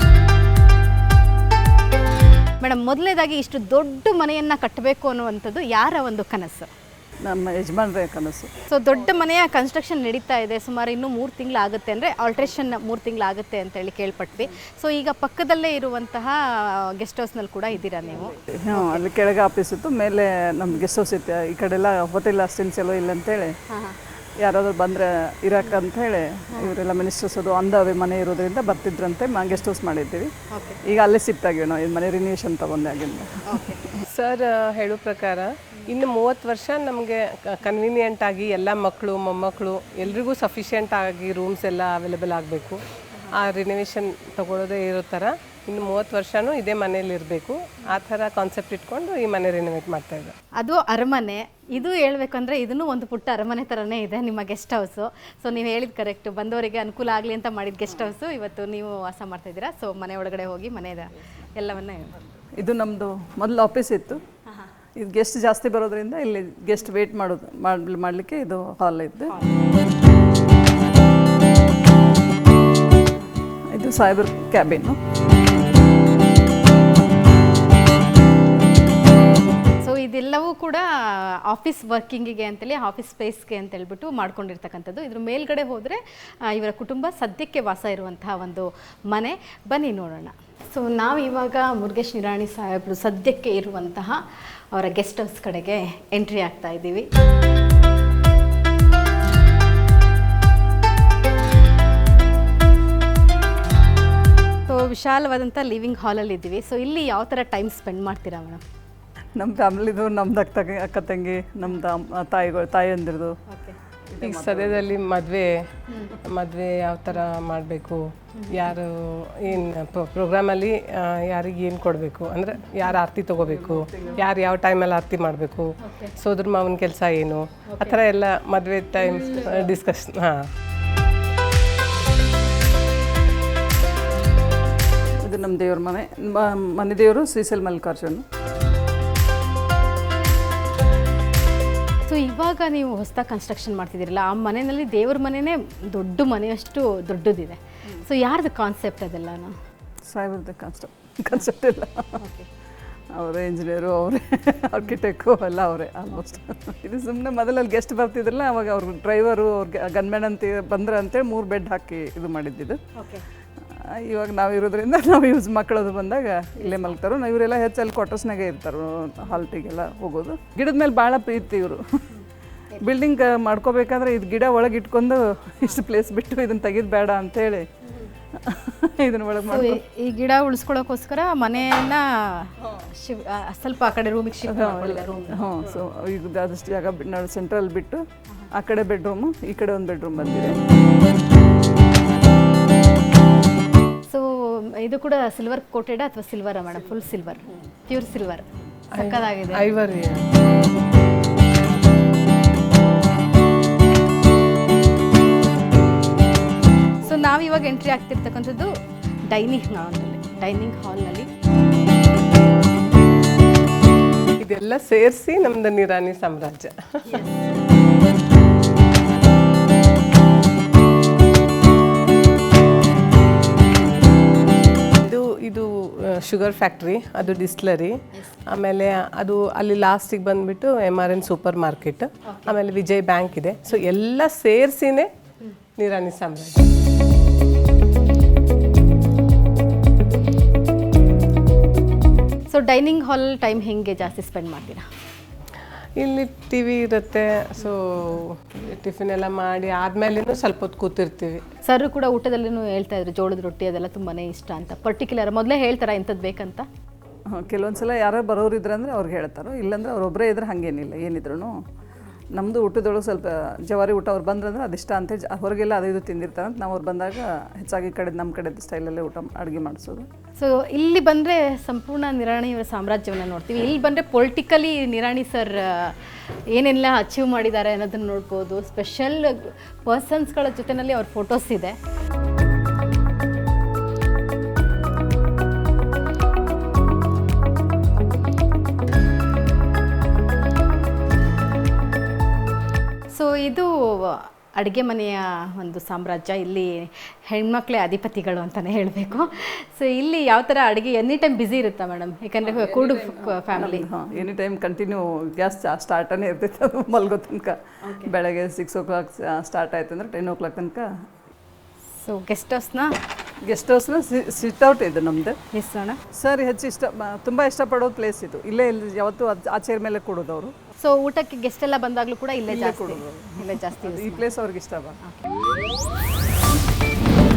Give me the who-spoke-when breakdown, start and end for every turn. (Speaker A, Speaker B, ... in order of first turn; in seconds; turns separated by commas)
Speaker A: 2.6-6.7, Speaker B: 7.3-8.5, Speaker A: 8.7-19.0, Speaker B: 18.4-23.5, Speaker A: 23.7-24.0, Speaker B: 24.4-30.3, Speaker A: 30.5-30.8, Speaker B: 30.9-34.0, Speaker A: 33.5-34.0, Speaker C: 34.1-50.4, Speaker A: 50.6-62.2, Speaker B: 62.6-64.2, Speaker B: 65.0-69.3, Speaker A: 69.3-69.5, Speaker B: 73.7-75.0, Speaker A: 79.8-97.1, Speaker A: 104.7-108.6, Speaker B: 109.4-113.4, Speaker A: 113.5-113.8, Speaker B: 114.1-114.9, Speaker C: 114.2-115.7, Speaker A: 115.9-116.2, Speaker C: 116.2-130.5, Speaker A: 118.3-118.7, Speaker B: 123.4-124.2, Speaker A: 125.8-126.2, Speaker A: 127.7-128.0, Speaker B: 135.2-138.2, Speaker A: 142.1-149.6, Speaker B: 150.1-152.2, Speaker A: 152.2-152.5, Speaker B: 153.1-162.8, Speaker A: 163.0-163.2, Speaker B: 164.0-171.8, Speaker A: 166.6-167.0, Speaker B: 172.8-177.7, Speaker B: 178.4-179.8, Speaker A: 179.5-185.8, Speaker B: 184.5-190.6, Speaker A: 194.1-199.7, Speaker C: 198.9-200.2, Speaker A: 207.0-208.7, Speaker A: 209.3-211.3, Speaker C: 214.4-217.2, Speaker C: 225.0-235.1, Speaker A: 232.2-232.6, Speaker C: 235.8-236.7, Speaker A: 242.5-244.8, Speaker C: 246.0-251.4, Speaker A: 251.6-256.7, Speaker B: 257.3-261.6, Speaker B: 262.3-270.1, Speaker A: 270.4-281.8, Speaker A: 293.1-303.9, Speaker B: 302.4-310.9, Speaker A: 307.8-308.1, Speaker A: 312.0-312.9, Speaker B: 313.5-315.4, Speaker A: 315.5-316.0, Speaker B: 316.1-320.5, Speaker A: 320.8-324.3, Speaker B: 322.5-325.0